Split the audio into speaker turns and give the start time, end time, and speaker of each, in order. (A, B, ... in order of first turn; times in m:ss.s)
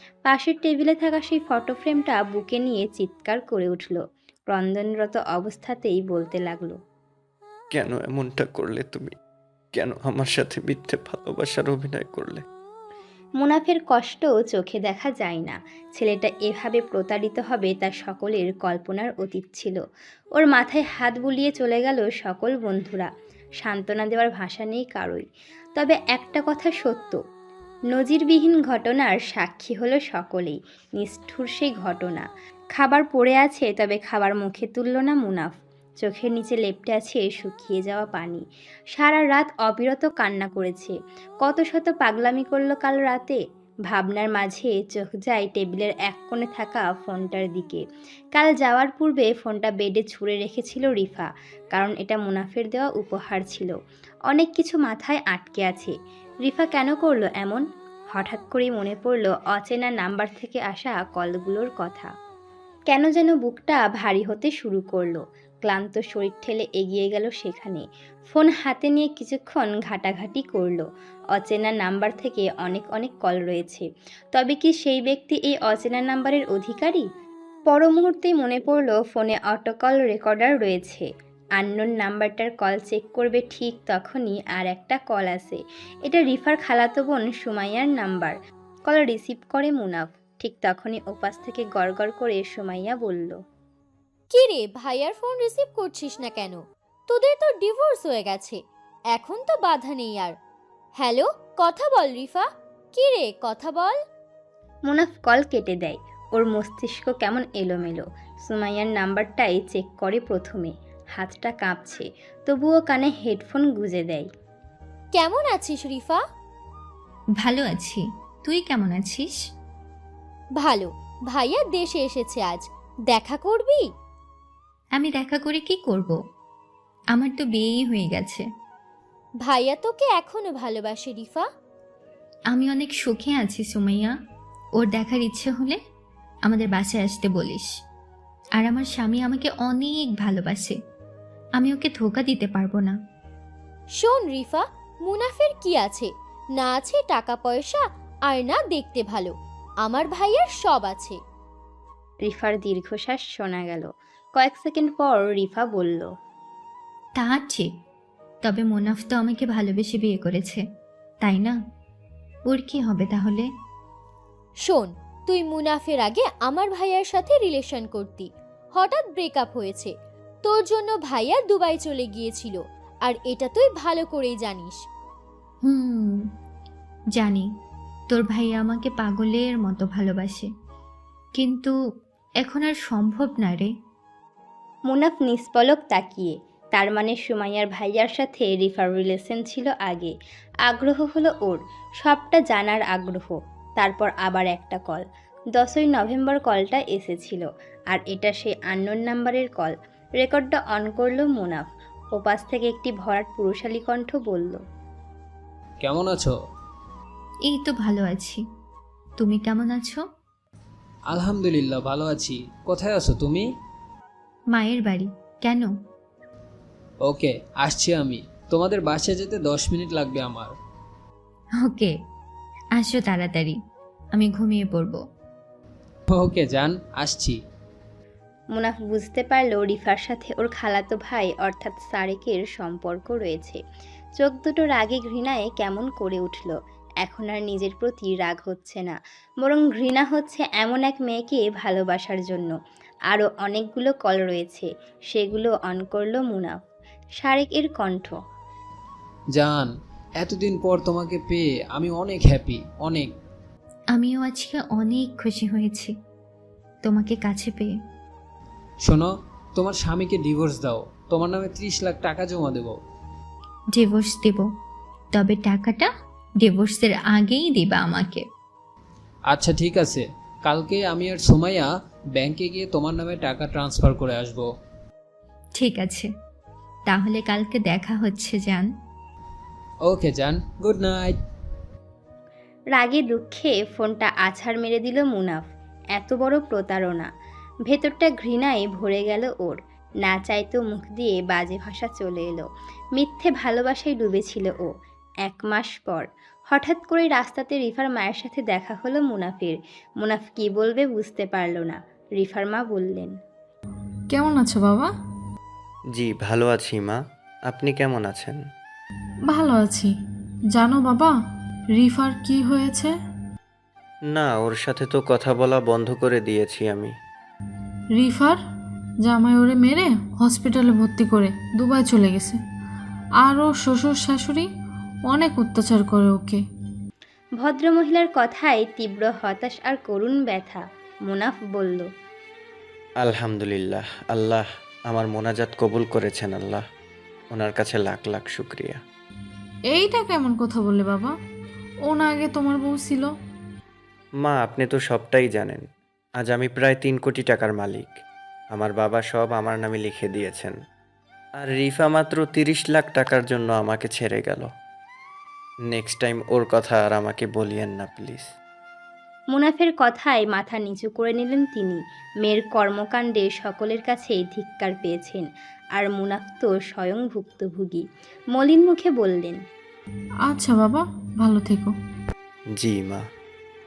0:00.2-0:04.0 A
0:04.5-0:06.8 A
0:07.7-0:09.1 B
0:09.7-0:12.4 B
0:13.4-0:19.8 A
0:20.4-0:23.1 A
0:23.6-0:25.2 A
0:25.8-0:27.2 A
0:27.9-0:38.4 A
0:38.9-0:47.8 A
0:48.4-0:53.7 A
0:54.3-1:02.1 A
1:02.9-1:17.0 A
1:17.7-1:28.4 A
1:28.9-1:33.4 A
1:34.3-1:38.6 C
1:39.1-1:40.3 C
1:41.0-1:44.0 C
1:44.9-1:54.3 A
1:55.1-1:56.2 C
1:57.4-1:59.4 D
2:00.6-2:03.9 C
2:05.0-2:06.2 D
2:07.1-2:08.4 D
2:09.4-2:11.5 C
2:12.5-2:14.1 D
2:14.8-2:15.8 D
2:16.4-2:17.7 D
2:18.6-2:20.8 D
2:21.6-2:22.9 D
2:24.0-2:31.2 C
2:32.2-2:36.1 A
2:37.2-2:37.7 D
2:38.4-2:40.6 D
2:41.2-2:41.6 D
2:42.5-2:43.4 D
2:44.6-2:49.9 C
2:50.4-2:54.8 C
2:55.6-2:56.3 D
2:57.1-2:57.5 D
2:58.1-3:00.5 D
3:01.4-3:01.7 D
3:02.4-3:03.7 D
3:04.9-3:10.1 A
3:10.6-3:24.6 A
3:25.8-3:26.3 E
3:27.4-3:28.4 D
3:29.2-3:30.0 D
3:31.1-3:33.4 E
3:34.5-3:35.7 D
3:37.0-3:40.5 E
3:41.6-3:41.9 D
3:42.7-3:43.6 D
3:44.1-3:45.0 D
3:46.1-3:47.4 E
3:48.6-3:53.6 A
3:54.2-4:02.5 A
4:03.1-4:06.6 A
4:07.2-4:08.2 A
4:09.3-4:13.1 E
4:13.9-4:15.9 D
4:16.8-4:17.7 D
4:18.8-4:22.8 E
4:23.7-4:24.5 D
4:25.1-4:25.9 D
4:26.4-4:28.2 D
4:29.3-4:34.5 E
4:35.6-4:36.1 D
4:36.9-4:38.7 D
4:39.8-4:41.2 E
4:42.7-4:45.4 A
4:46.0-4:47.1 A
4:47.7-4:52.4 A
4:53.0-4:54.7 A
4:55.2-5:03.1 A
5:04.1-5:04.9 F
5:05.9-5:08.4 B
5:09.3-5:09.9 F
5:10.5-5:11.1 F
5:11.8-5:12.9 F
5:14.1-5:16.9 B
5:17.9-5:18.4 F
5:19.0-5:22.4 F
5:23.2-5:24.5 F
5:25.1-5:26.4 F
5:27.4-5:31.9 A
5:33.0-5:36.6 B
5:37.3-5:38.8 B
5:39.7-5:41.1 F
5:41.9-5:43.1 F
5:44.2-5:45.6 B
5:46.2-5:48.0 B
5:48.5-5:50.6 B
5:51.4-5:54.5 B
5:55.7-5:58.3 B
5:59.3-6:09.4 A
6:10.3-6:11.7 F
6:12.6-6:13.0 B